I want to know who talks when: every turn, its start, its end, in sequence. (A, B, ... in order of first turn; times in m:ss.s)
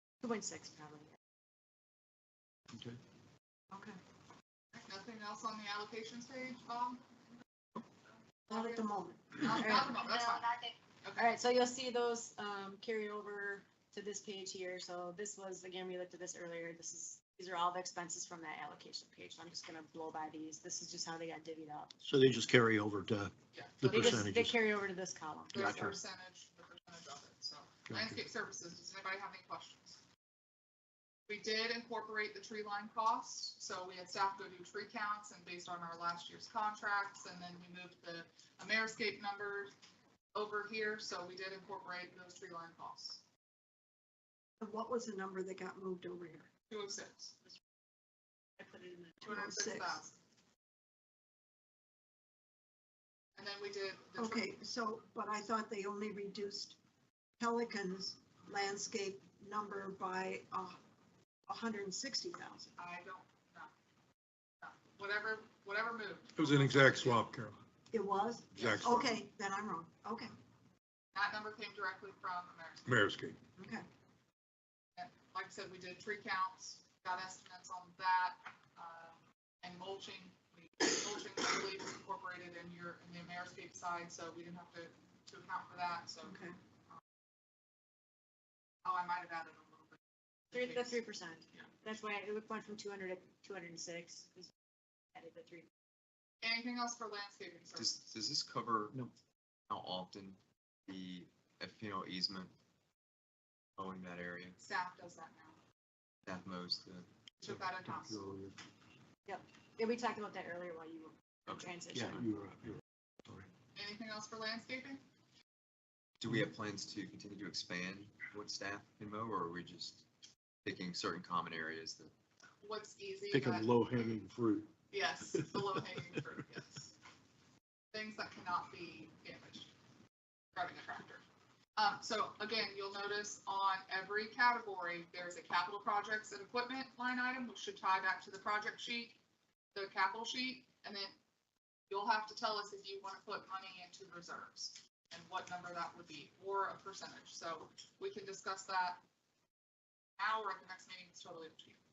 0:00.2-0:01.1 A
0:02.7-0:03.0 B
0:03.7-0:04.0 C
0:04.7-0:07.0 D
0:08.5-0:09.8 C
0:09.4-0:10.5 D
0:09.5-0:21.9 A
0:11.0-0:11.3 D
0:22.0-0:24.6 B
0:23.5-0:24.3 D
0:23.9-0:25.9 A
0:25.5-0:30.0 D
0:25.6-0:26.0 B
0:31.3-0:39.7 D
0:40.3-0:43.2 D
0:44.6-0:46.5 C
0:46.7-0:47.4 D
0:48.6-0:49.2 A
0:49.2-0:50.0 C
0:49.2-0:50.2 D
0:53.4-0:54.5 D
0:54.2-0:56.8 C
0:57.4-1:00.8 C
1:01.5-1:02.8 C
1:02.8-1:03.7 D
1:04.6-1:07.2 D
1:06.4-1:07.6 E
1:07.9-1:10.3 C
1:08.6-1:08.9 D
1:08.6-1:09.2 E
1:11.1-1:12.9 D
1:12.9-1:13.4 E
1:13.6-1:13.9 C
1:15.0-1:26.4 D
1:26.2-1:26.6 C
1:28.8-1:30.0 D
1:30.5-1:31.0 D
1:30.5-1:34.5 A
1:35.1-1:35.7 A
1:36.4-1:38.0 D
1:37.7-1:39.0 F
1:39.7-1:42.5 F
1:43.8-1:44.6 F
1:44.6-1:45.6 D
1:46.2-1:47.1 F
1:47.4-1:48.2 D
1:49.3-1:52.2 A
1:51.5-1:51.7 F
1:51.9-1:53.5 B
1:53.8-1:55.0 D
1:56.2-2:00.0 F
2:00.6-2:02.1 F
2:02.6-2:03.7 D
2:03.3-2:04.7 B
2:04.9-2:07.0 D
2:07.9-2:09.7 D
2:10.6-2:11.2 D
2:11.8-2:19.2 D
2:19.8-2:21.1 D
2:21.9-2:29.0 D
2:30.2-2:31.8 D